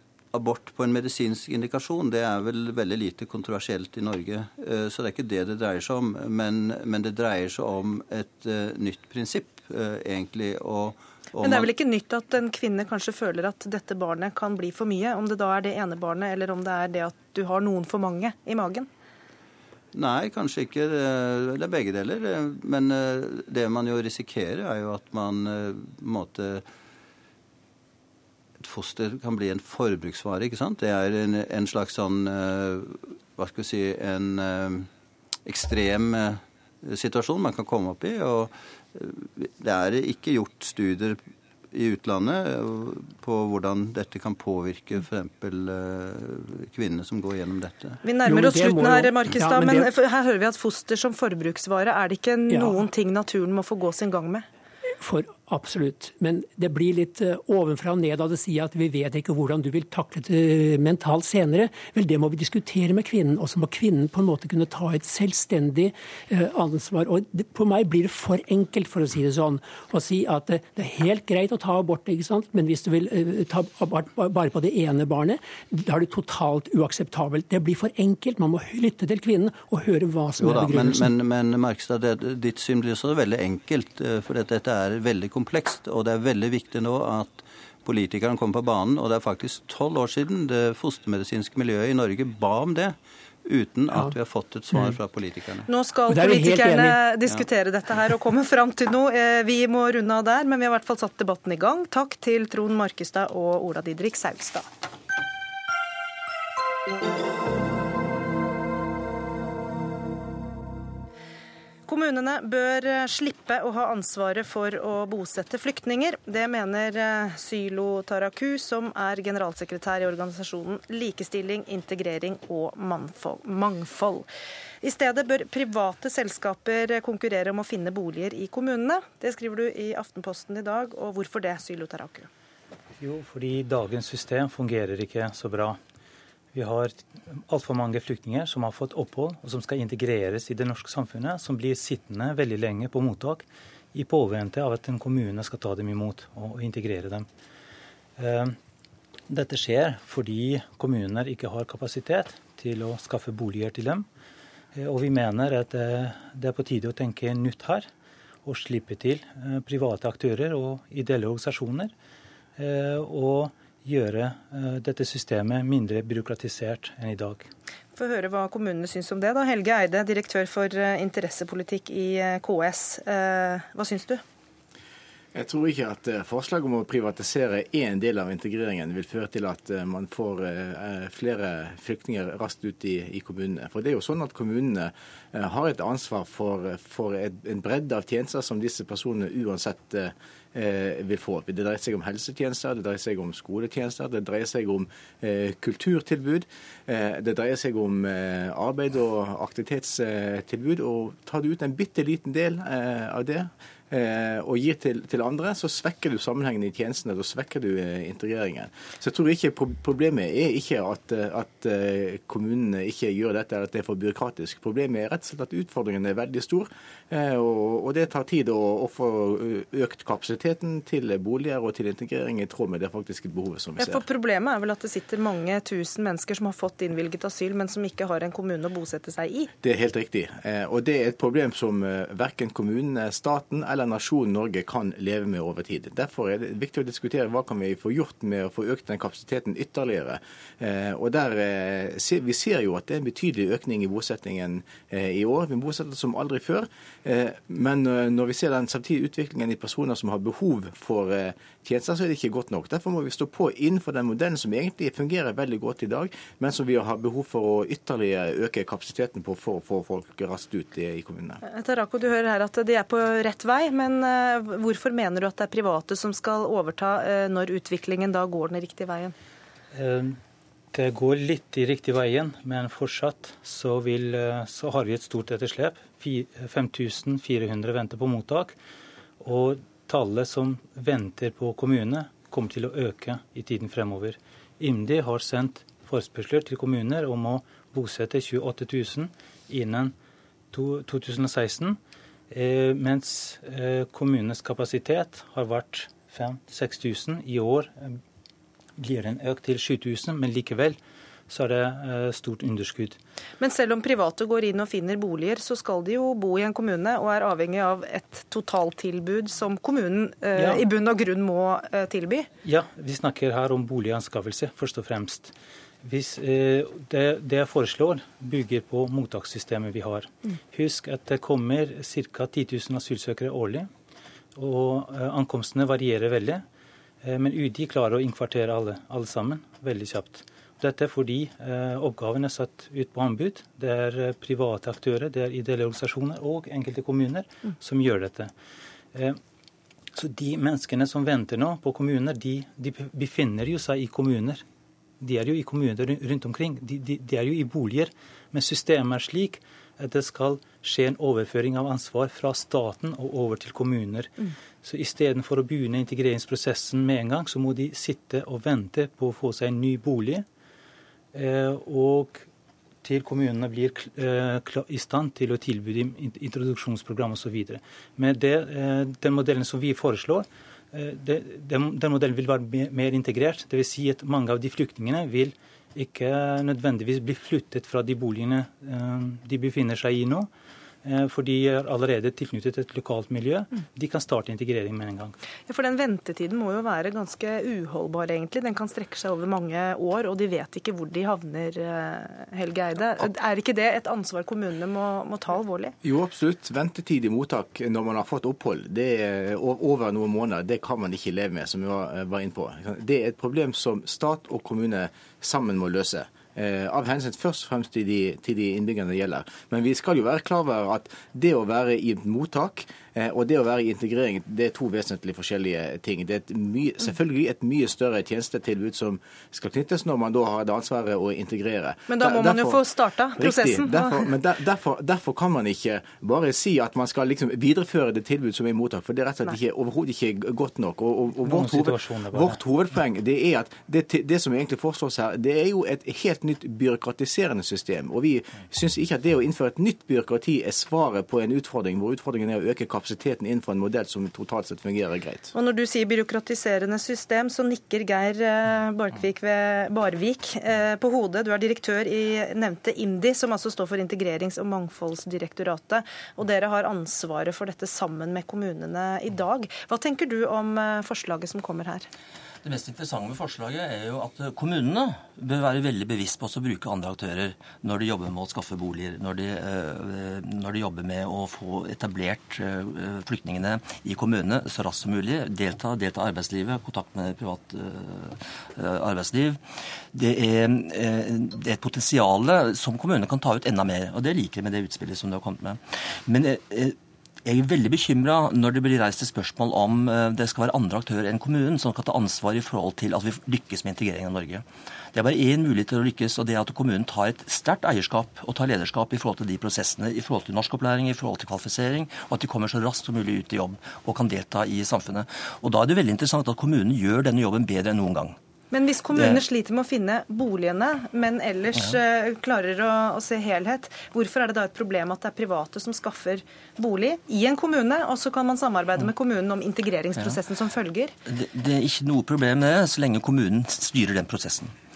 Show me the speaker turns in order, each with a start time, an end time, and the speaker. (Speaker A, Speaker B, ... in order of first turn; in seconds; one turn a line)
Speaker A: 0.3-11.7
Speaker B: 11.4-18.9
Speaker A: 19.9-26.6
Speaker A: 28.6-34.9
Speaker A: 35.5-41.2
Speaker A: 41.7-48.0
Speaker B: 48.0-54.5
Speaker C: 48.3-49.9
Speaker C: 55.0-81.1
Speaker A: 80.4-95.7
Speaker B: 95.7-104.7
Speaker C: 96.1-97.0
Speaker B: 111.9-124.3
Speaker B: 124.8-132.3
Speaker D: 133.0-135.8
Speaker D: 136.5-147.3
Speaker D: 148.2-148.6
Speaker D: 149.3-154.1
Speaker D: 154.8-157.9
Speaker D: 158.4-161.9
Speaker D: 162.6-167.5
Speaker B: 167.9-174.2
Speaker E: 175.3-224.0
Speaker B: 223.8-229.5
Speaker E: 229.6-261.4
Speaker B: 261.4-269.1
Speaker D: 269.7-270.2
Speaker D: 270.7-278.6
Speaker D: 279.2-289.9
Speaker D: 290.5-291.8
Speaker D: 292.3-298.0
Speaker D: 298.8-300.8
Speaker D: 301.3-303.0
Speaker B: 303.4-312.3
Speaker D: 310.4-310.6
Speaker D: 312.4-323.7
Speaker D: 324.4-326.4
Speaker D: 327.0-338.3
Speaker D: 338.9-339.2
Speaker D: 339.9-344.4
Speaker D: 345.0-360.2
Speaker D: 361.1-362.3
Speaker D: 362.8-380.3
Speaker D: 380.8-385.1
Speaker B: 385.5-395.8
Speaker E: 395.8-422.6
Speaker B: 421.9-424.1
Speaker E: 423.2-445.3
Speaker D: 431.2-432.4
Speaker B: 445.3-461.9
Speaker F: 462.4-479.4
Speaker F: 479.9-508.1
Speaker B: 508.5-520.9
Speaker F: 508.9-509.2
Speaker F: 521.1-524.5